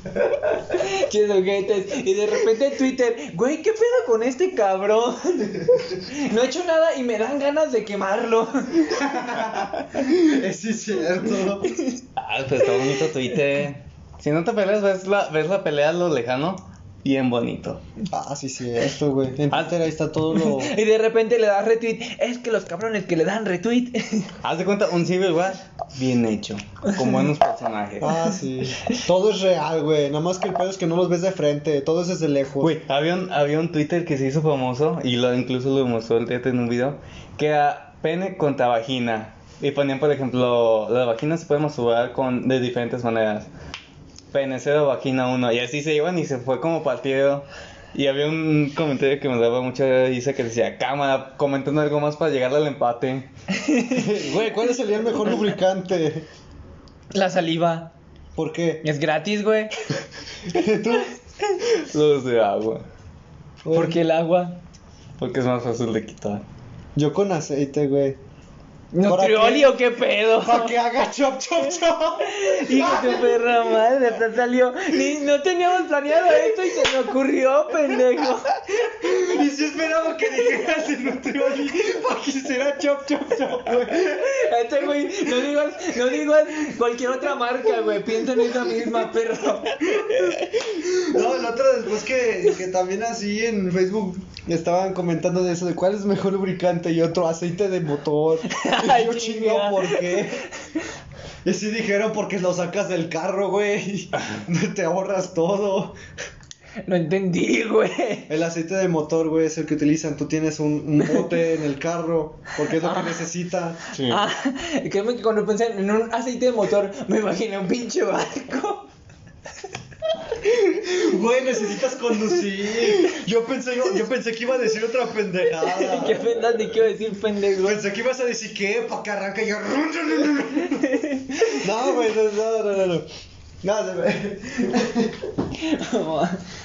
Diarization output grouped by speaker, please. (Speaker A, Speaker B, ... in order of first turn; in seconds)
Speaker A: 0.5-8.9, 11.7-12.0, 20.3-24.3, 53.5-54.0, 57.1-57.9, 58.8-59.7, 63.7-64.6, 68.9-70.8, 72.2-78.6, 84.0-90.4, 98.5-100.2, 106.8-108.3, 112.7-113.2, 114.0-118.9, 125.6-127.8, 130.8-131.6, 135.6-136.4
Speaker B: 8.9-11.7, 18.1-20.8, 28.0-32.8, 53.9-56.2, 58.4-58.8, 60.5-61.1, 63.6-64.0, 67.0-68.2, 69.0-69.8, 70.3-73.4, 78.9-84.4, 90.7-100.4, 101.4-106.0, 108.3-113.8, 120.4-126.3, 127.6-133.1, 133.6-135.3
Speaker C: 12.2-17.8, 24.4-28.1, 32.6-43.5, 44.3-53.3, 61.6-62.8, 65.2-66.4, 113.9-114.2